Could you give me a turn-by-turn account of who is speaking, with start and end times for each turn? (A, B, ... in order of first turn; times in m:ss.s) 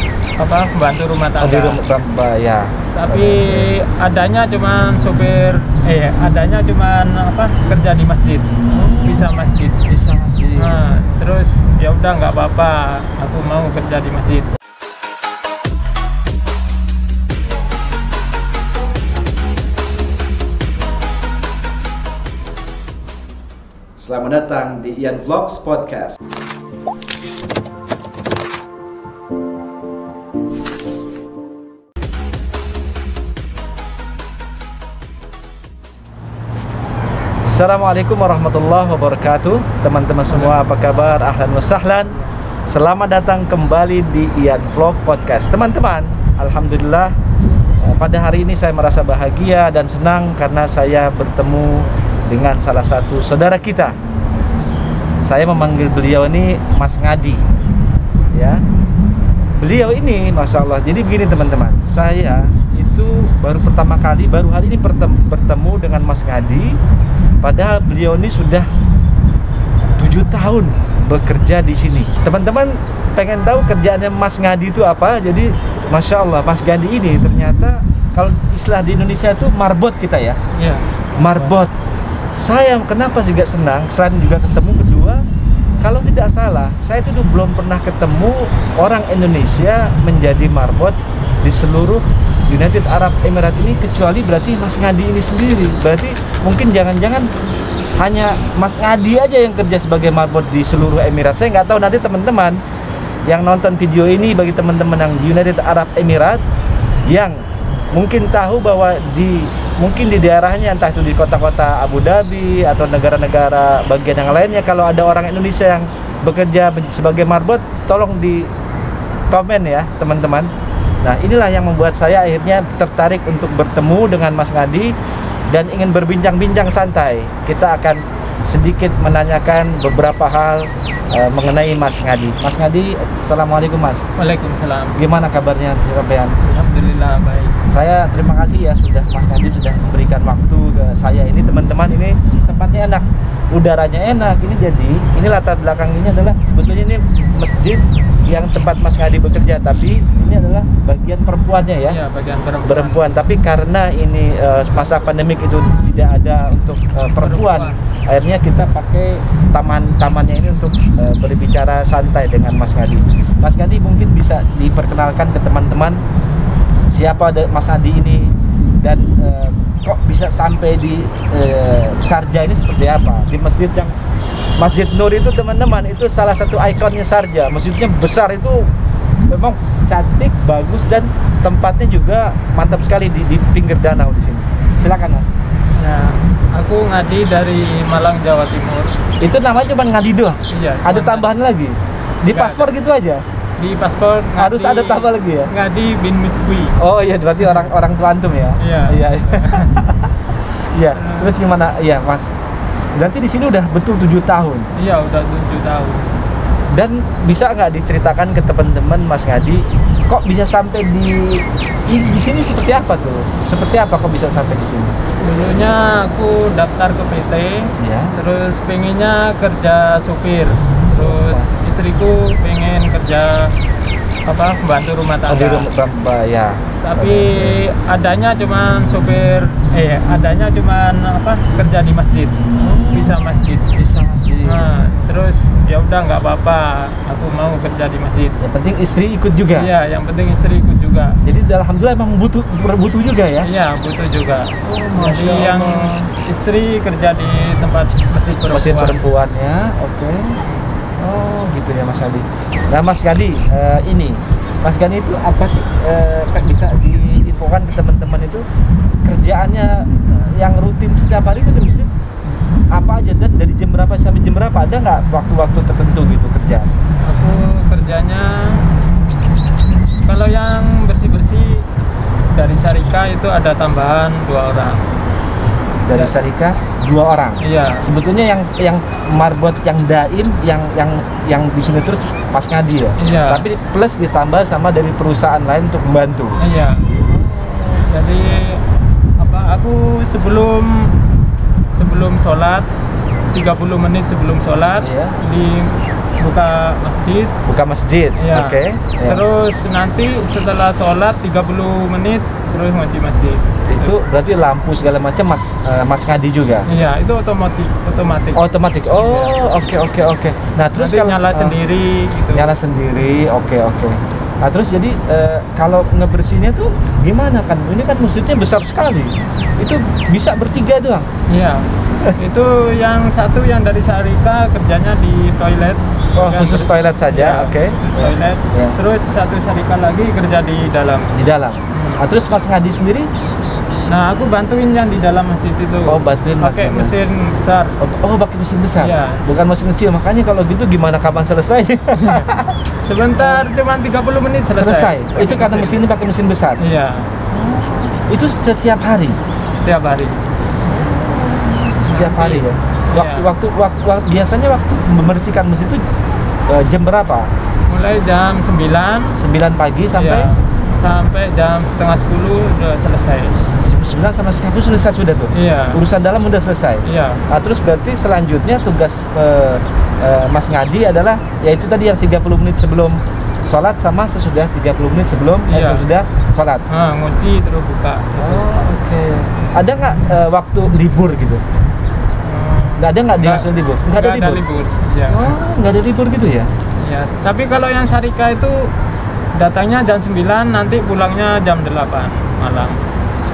0:00.4-0:01.8 A
0:01.4-0:03.7 B
0:02.9-0:08.5 A
0:08.7-0:10.9 B
0:09.0-0:09.8 A
0:10.6-0:14.5 A
0:24.0-0:26.2 B
0:37.4-0:47.1 B
0:40.3-0:40.7 A
0:47.8-0:53.9 B
0:55.2-0:57.4 B
0:58.3-0:58.6 B
0:59.6-1:06.8 B
1:07.4-1:08.7 B
1:10.0-1:20.4 B
1:20.6-1:21.5 A
1:21.2-1:21.7 B
1:22.4-1:25.2 B
1:25.8-1:37.3 B
1:38.0-1:42.6 B
1:43.3-1:46.4 B
1:47.1-1:47.4 B
1:47.9-1:58.5 B
1:59.3-2:00.5 B
2:01.0-2:04.9 B
2:05.5-2:14.0 B
2:14.2-2:15.0 A
2:15.0-2:16.4 B
2:16.4-2:17.5 A
2:17.7-2:32.0 B
2:31.8-2:33.1 A
2:32.6-2:46.0 B
2:37.2-2:37.8 A
2:46.9-2:53.9 B
2:54.6-2:58.7 B
2:59.3-3:05.3 B
3:05.8-3:08.9 A
3:09.2-3:13.2 B
3:10.5-3:11.3 A
3:12.3-3:12.7 A
3:13.6-3:16.8 A
3:14.4-3:15.5 B
3:16.8-3:20.2 B
3:17.4-3:17.7 A
3:18.6-3:19.8 A
3:20.7-3:22.3 B
3:20.9-3:21.3 A
3:22.9-3:24.7 B
3:24.8-3:26.1 A
3:26.7-3:34.9 B
3:35.2-3:43.5 A
3:37.8-3:38.1 B
3:41.0-3:41.5 B
3:44.2-3:45.7 A
3:45.3-3:47.6 B
3:46.8-3:52.4 A
3:52.6-3:54.7 B
3:52.9-3:53.7 A
3:54.4-3:58.4 A
3:58.4-3:59.7 B
3:59.5-4:01.2 A
4:01.2-4:03.5 B
4:03.4-4:09.0 A
4:04.6-4:06.1 B
4:08.5-4:10.4 B
4:11.0-4:18.4 B
4:19.0-4:21.9 B
4:22.7-4:26.7 B
4:27.0-4:28.7 A
4:30.0-4:31.7 A
4:32.3-4:34.8 A
4:35.8-4:46.4 B
4:37.4-4:37.8 A
4:43.0-4:43.4 A
4:46.4-4:48.6 A
4:49.2-4:51.0 A
4:51.7-4:52.7 A
4:53.3-4:57.3 A
4:54.8-4:55.1 B
4:57.4-4:59.2 B
4:58.2-5:03.9 A
5:03.7-5:06.7 B
5:06.7-5:08.4 A
5:08.4-5:11.6 B
5:09.0-5:09.4 A
5:10.7-5:12.5 A
5:12.3-5:21.1 B
5:21.3-5:31.1 A
5:26.2-5:28.8 B
5:31.1-5:33.1 B
5:31.7-5:32.0 A
5:33.9-5:37.8 A
5:35.9-5:36.9 B
5:37.8-5:42.6 B
5:38.8-5:39.2 A
5:42.0-5:42.3 A
5:42.9-5:45.8 A
5:43.2-5:43.4 B
5:44.5-5:46.6 B
5:46.6-5:47.1 A
5:47.3-5:49.2 B
5:49.5-5:50.2 A
5:50.6-5:55.8 B
5:51.8-5:53.3 A
5:56.5-5:57.3 B
5:57.7-5:59.2 A
5:59.2-6:00.3 B
5:59.9-6:03.3 A
6:03.3-6:16.7 B
6:05.3-6:05.8 A
6:06.8-6:07.2 A
6:15.5-6:15.8 A
6:16.7-6:18.5 A
6:18.2-6:21.4 B
6:22.2-6:25.3 A
6:22.8-6:24.4 B
6:25.1-6:26.5 B
6:26.8-6:28.7 A
6:29.3-6:32.8 A